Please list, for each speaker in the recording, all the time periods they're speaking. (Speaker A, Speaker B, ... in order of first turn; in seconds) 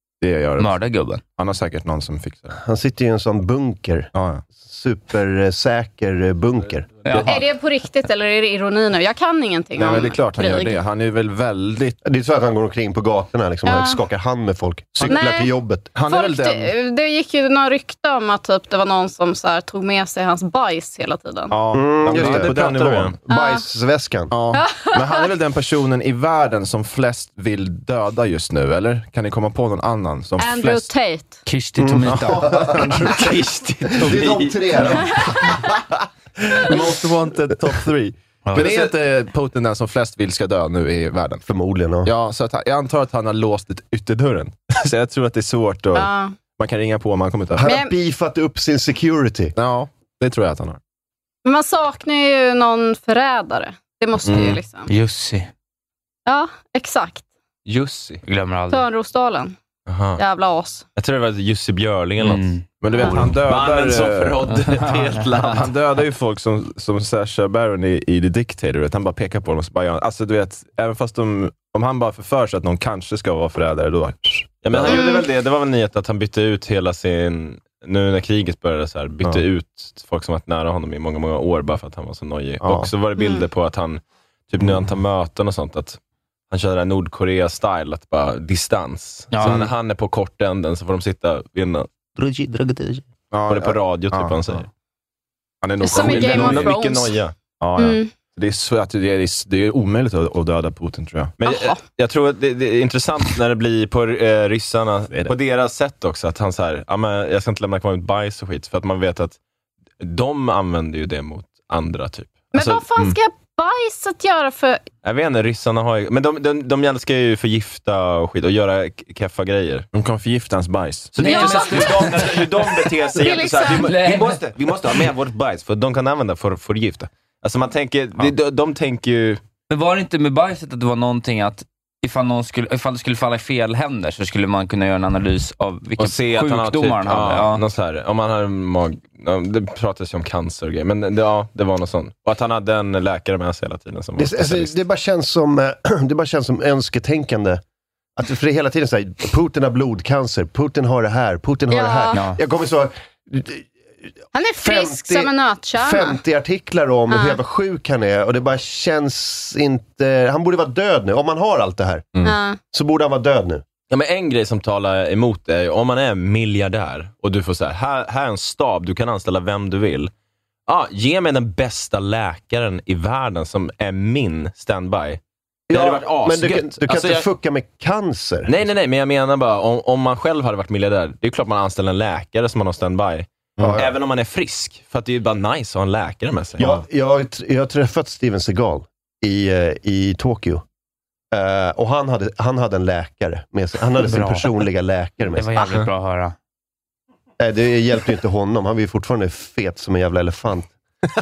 Speaker A: 0.2-0.7, 1.4-2.6, 4.1-4.4, 9.8-12.0, 15.0-15.3, 15.9-16.7, 21.5-23.2, 24.3-30.9, 32.0-33.4, 34.8-35.8, 36.4-41.4, 42.0-47.6, 49.5-50.8, 54.3-54.5, 57.7-58.2, 62.8-64.6, 65.4-75.1, 82.6-82.9, 89.4-89.7, 93.3-94.6, 95.6-96.7, 97.6-101.3, 119.9-122.0, 183.6-183.8
Speaker B: 0.6-1.2, 7.0-7.4, 31.4-32.7, 54.9-55.5, 58.2-58.8, 62.2-62.6, 64.7-65.2, 89.3-89.6, 121.2-122.3, 123.8-124.4, 129.7-137.6, 152.1-152.4, 194.0-194.5, 195.3-196.3
Speaker C: 2.6-7.2, 12.0-15.9, 21.7-24.3, 31.8-33.3, 34.0-35.8, 38.5-38.9, 41.5-42.1, 47.6-49.5, 144.2-147.6, 148.2-154.1, 154.6-162.2, 162.7-163.6, 175.7-178.5, 183.6-183.9, 186.6-190.6, 191.3-195.7, 197.4-200.7
Speaker D: 7.2-10.8, 13.6-14.0, 15.1-15.5, 16.1-21.6, 23.3-23.6, 24.5-25.3, 30.4-31.4, 45.9-46.3, 47.6-47.9, 51.4-54.9, 56.2-57.2, 58.7-59.5, 60.2-60.8, 62.9-63.2, 74.9-75.2, 83.2-83.4, 95.8-97.2, 97.8-98.1, 101.4-101.8, 112.5-114.8, 121.2-122.1, 123.1-123.9, 151.7-152.2, 154.3-156.2, 157.1-157.4, 162.2-162.6
Speaker E: 22.1-23.1, 33.0-34.8, 59.9-60.2, 60.9-62.5, 63.1-65.7, 74.6-86.0, 86.5-94.7, 95.9-97.3, 101.4-109.4, 110.0-113.1, 115.0-119.9, 121.1-129.4, 136.0-144.7, 163.9-170.1, 170.7-175.2, 175.7-177.3, 178.4-186.7